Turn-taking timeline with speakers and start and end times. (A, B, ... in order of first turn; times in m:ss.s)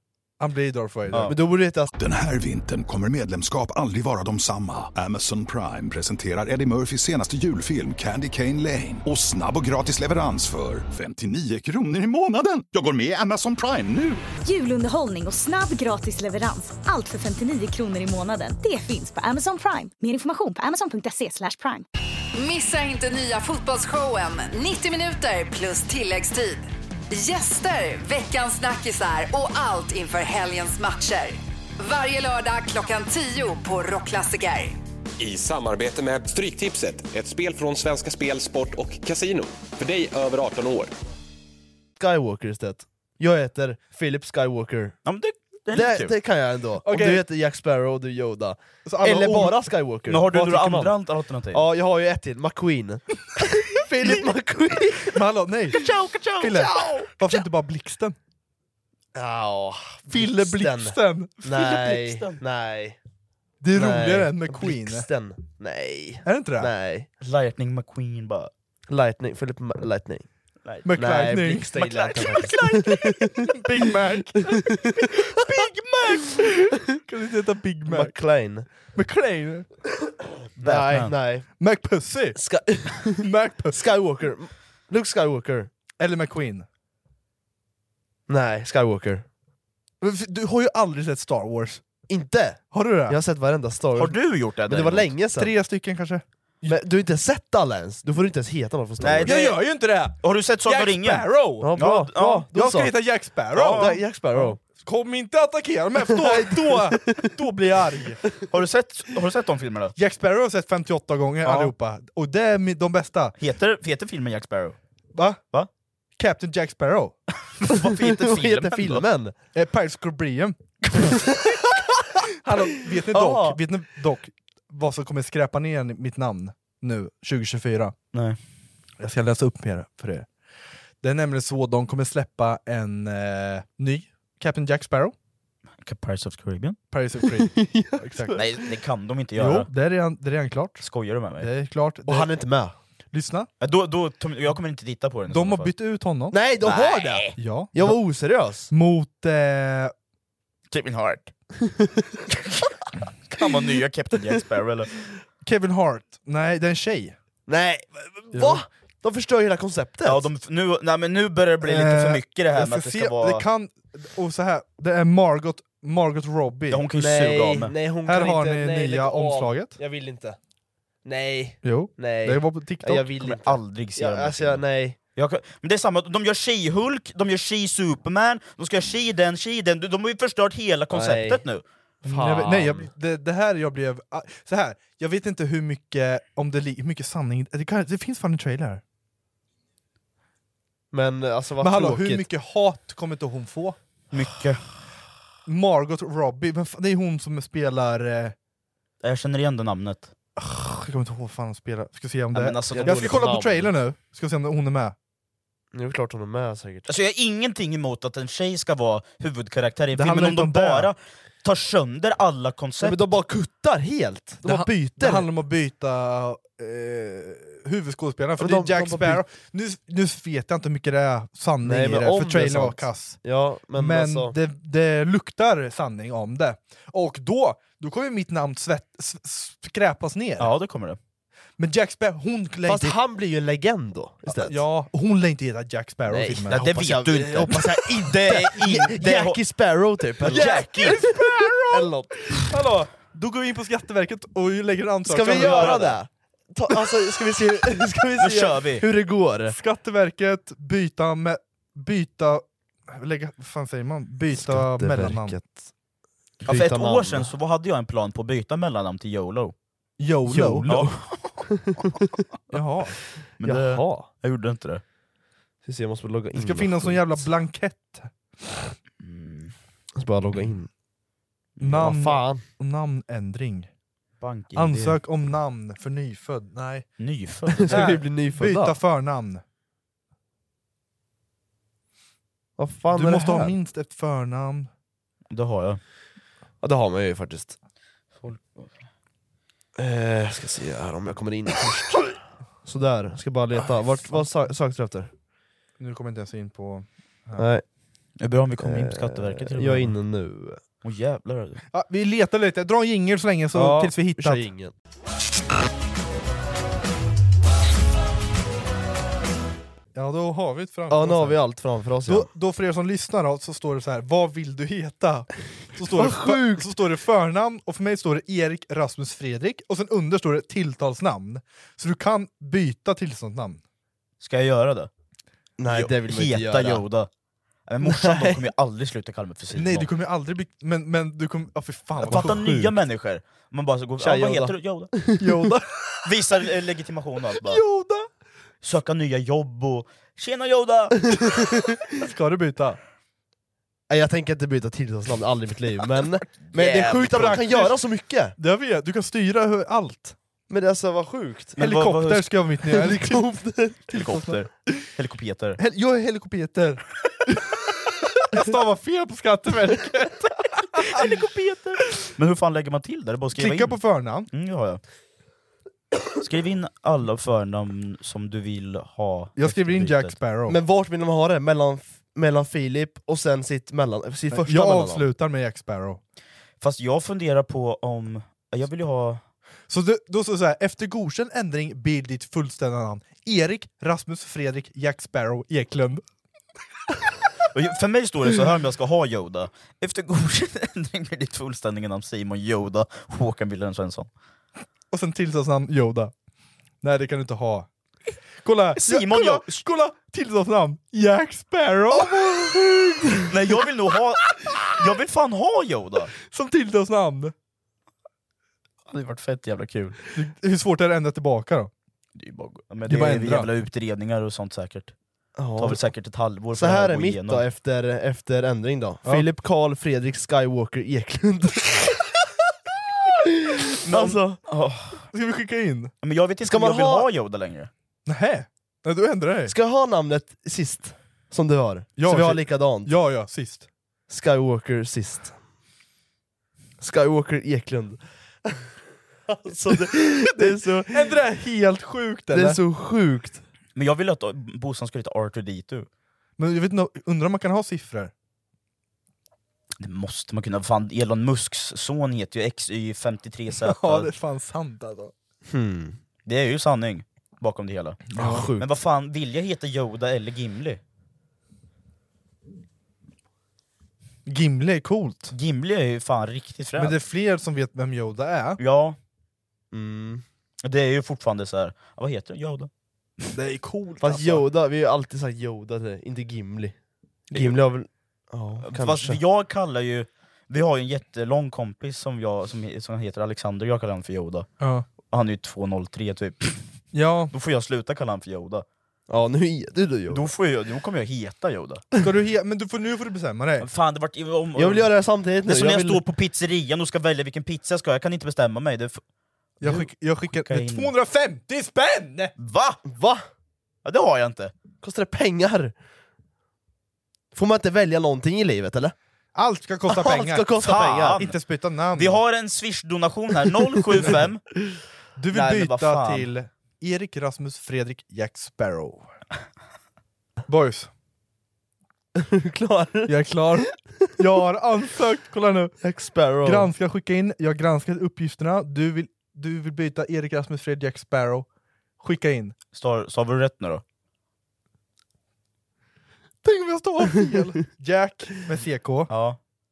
0:00.4-0:01.3 A
0:01.3-0:01.9 B
0:02.0-0:14.2 C
0:14.4-0:21.8 D
0:22.3-0:34.8 E
0:35.2-0:40.9 F
0:42.0-0:45.0 B
0:45.0-0:46.1 G
0:45.7-0:50.9 B
0:46.8-0:47.2 A
0:48.8-0:49.6 A
0:50.1-0:51.6 G
0:51.5-0:55.2 B
0:55.0-0:55.8 A
0:55.7-0:57.3 G
0:56.4-0:58.2 A
0:59.1-1:03.0 B
1:00.1-1:01.5 A
1:01.5-1:02.4 G
1:03.6-1:05.1 A
1:03.7-1:07.1 B
1:06.2-1:06.7 A
1:07.2-1:08.5 G
1:08.9-1:10.2 B
1:10.6-1:13.5 G
1:10.8-1:11.7 A
1:10.9-1:13.5 B
1:13.5-1:15.1 A
1:15.0-1:16.4 G
1:16.2-1:18.1 A
1:17.9-1:18.7 B
1:18.9-1:19.7 A
1:20.6-1:21.4 B
1:20.6-1:21.1 G
1:21.6-1:22.4 A
1:22.4-1:25.7 B
1:23.0-1:23.9 A
1:26.0-1:26.6 A
1:28.3-1:29.2 B
1:30.0-1:31.8 A
1:32.1-1:35.5 B
1:32.7-1:33.2 A
1:33.9-1:35.1 G
1:35.3-1:36.8 A
1:36.6-1:39.3 B
1:39.0-1:39.6 G
1:39.2-1:41.8 A
1:40.2-1:42.4 G
1:41.6-1:42.9 B
1:42.5-1:48.2 A
1:43.5-1:44.6 B
1:43.6-1:43.9 G
1:46.0-1:47.3 B
1:48.5-1:49.9 G
1:50.0-1:53.3 A
1:53.4-1:54.8 G
1:55.1-1:55.4 A
1:56.2-1:57.2 A
1:57.6-1:59.0 G
1:58.0-1:59.4 B
1:59.5-2:00.6 A
2:01.0-2:01.4 B
2:02.4-2:07.9 A
2:03.1-2:03.6 B
2:08.1-2:08.4 G
2:09.0-2:10.3 A
2:11.0-2:15.1 A
2:15.8-2:16.8 G
2:16.9-2:18.4 A
2:17.4-2:18.4 B
2:18.3-2:19.7 G
2:19.4-2:20.8 A
2:20.8-2:21.5 G
2:21.4-2:22.3 A
2:22.1-2:22.7 B
2:23.1-2:23.5 A
2:23.6-2:25.7 G
2:25.3-2:26.4 A
2:26.3-2:28.7 B
2:26.6-2:27.4 G
2:27.4-2:28.0 A
2:28.7-2:29.9 A
2:30.7-2:31.3 G
2:33.3-2:34.9 G
2:35.4-2:37.2 A
2:37.5-2:40.2 B
2:38.3-2:38.6 A
2:40.0-2:43.4 G
2:41.6-2:46.8 A
2:46.7-2:47.7 G
2:47.0-2:50.4 B
2:48.0-2:49.8 A
2:51.0-2:55.0 B
2:51.6-2:53.1 A
2:53.2-2:54.6 G
2:55.2-3:01.6 G
3:00.9-3:01.4 B
3:02.0-3:08.8 A
3:02.0-3:02.9 B
3:10.9-3:12.2 B
3:11.6-3:13.8 A
3:14.1-3:14.6 G
3:15.4-3:18.3 A
3:19.0-3:20.1 G
3:20.4-3:25.0 A
3:22.3-3:23.3 G
3:22.7-3:23.7 B
3:25.7-3:26.9 B
3:26.9-3:33.2 G
3:29.9-3:30.9 A
3:32.8-3:35.3 B
3:34.4-3:43.2 A
3:38.4-3:39.2 B
3:41.6-3:44.3 B
3:43.7-3:50.5 A
3:50.4-3:51.0 G
3:51.6-3:53.0 A
3:52.7-3:54.6 B
3:54.2-3:56.7 A
3:56.1-4:02.5 B
3:56.5-3:59.4 G
4:00.2-4:01.0 G
4:00.2-4:05.8 A
4:05.0-4:09.6 B
4:05.2-4:06.0 G
4:08.2-4:08.8 G
4:09.5-4:15.4 A
4:14.3-4:15.6 B
4:16.4-4:19.5 G
4:16.5-4:17.3 B
4:20.0-4:20.8 A
4:20.3-4:20.9 B
4:20.6-4:21.4 G
4:21.5-4:21.9 B
4:22.5-4:23.0 A
4:23.4-4:24.8 G
4:23.4-4:24.1 B
4:25.6-4:27.2 B
4:26.3-4:28.1 A
4:29.0-4:29.5 G
4:30.0-4:30.7 B
4:31.6-4:31.9 G
4:31.6-4:33.7 A
4:31.8-4:32.4 B
4:34.2-4:35.0 G
4:34.5-4:36.8 A
4:37.0-4:38.0 G
4:37.6-4:38.7 B
4:37.6-4:39.4 A
4:42.6-4:43.5 B
4:42.9-4:44.7 A
4:45.3-4:45.8 G
4:46.6-4:47.6 B
4:48.2-4:48.7 G
4:49.8-4:55.1 B
4:55.8-4:57.5 A
4:57.4-4:57.6 B
4:58.2-4:59.9 G
4:58.6-5:00.6 B
5:00.8-5:01.6 G
5:01.7-5:04.5 A
5:03.5-5:04.7 B
5:09.9-5:11.4 A
5:10.9-5:12.3 B
5:12.0-5:23.6 A
5:15.9-5:16.6 B
5:24.2-5:24.9 G
5:25.6-5:26.8 B
5:25.7-5:27.1 G
5:27.7-5:29.9 G
5:27.8-5:28.4 B
5:29.5-5:32.7 A
5:32.0-5:32.7 B
5:32.0-5:34.9 G
5:34.0-5:35.5 B
5:35.2-5:36.1 A
5:36.0-5:37.6 G
5:37.4-5:38.1 A
5:38.6-5:41.2 G
5:41.1-5:41.8 B
5:42.0-5:42.8 A
5:43.9-5:48.3 B
5:46.4-5:47.7 G
5:47.3-5:47.7 A
5:48.4-5:50.2 A
5:50.5-5:51.6 B
5:51.6-5:52.3 G
5:51.6-5:53.2 A
5:52.7-5:54.3 B
5:53.9-5:55.6 G
5:55.6-5:57.6 A
5:58.3-6:01.0 A
6:00.7-6:03.8 G
6:03.4-6:04.3 A
6:04.3-6:04.8 G
6:06.2-6:10.1 G
6:09.4-6:10.6 A
6:10.5-6:15.0 B
6:14.3-6:16.0 A
6:16.6-6:19.2 G
6:19.7-6:26.0 A
6:27.5-6:34.1 G
6:34.9-6:36.1 A
6:36.8-6:37.7 A
6:38.4-6:43.5 A
6:38.8-6:39.6 G
6:42.2-6:42.5 B
6:43.3-6:46.1 G
6:46.3-6:47.3 A
6:48.9-6:50.0 G
6:50.1-6:51.7 A
6:52.2-6:54.9 G
6:52.9-6:53.5 A
6:55.4-6:55.8 B
6:55.6-6:57.4 G
6:56.5-7:02.1 B
7:03.4-7:04.4 B
7:03.9-7:05.0 G
7:05.1-7:05.9 A
7:06.0-7:07.7 G
7:06.4-7:07.0 B
7:08.0-7:09.5 A
7:09.5-7:12.9 B
7:12.0-7:13.7 A
7:14.1-7:15.3 B
7:16.8-7:18.6 B
7:19.3-7:21.1 B
7:19.7-7:22.6 A
7:22.3-7:23.4 B
7:23.8-7:25.9 G
7:26.4-7:28.1 A
7:29.8-7:34.1 G
7:33.6-7:35.1 A
7:35.5-7:36.0 B
7:36.2-7:40.8 G
7:38.1-7:38.5 A
7:38.2-7:38.6 B
7:44.2-7:45.3 A
7:45.3-7:47.0 G
7:46.8-7:48.6 A
7:48.6-7:49.0 G
7:49.7-7:50.2 B
7:50.6-7:52.7 G
7:53.3-7:54.4 A
7:54.0-7:56.8 B
7:57.3-7:59.2 B
7:58.6-8:04.5 G
8:04.6-8:04.8 A
8:05.1-8:06.6 G
8:06.9-8:07.3 A
8:07.3-8:08.6 G
8:09.1-8:10.3 B
8:10.1-8:11.8 G
8:12.0-8:13.7 A
8:13.6-8:14.9 G
8:14.6-8:16.0 B
8:15.4-8:19.0 G
8:19.6-8:20.9 G
8:19.6-8:22.3 A
8:22.4-8:22.8 G
8:22.9-8:23.2 B
8:23.8-8:24.5 G
8:24.8-8:25.7 B
8:27.3-8:28.9 B
8:29.3-8:32.2 A
8:29.9-8:31.2 B
8:30.6-8:31.4 G
8:31.9-8:34.4 G
8:35.2-8:39.1 A
8:35.3-8:36.3 G
8:40.5-8:40.9 A
8:42.2-8:43.1 B
8:43.1-8:45.8 A
8:45.8-8:46.7 B
8:46.4-8:51.5 A
8:52.0-8:52.5 A
8:52.7-8:53.8 G
8:56.4-8:59.1 A
8:59.1-8:59.4 G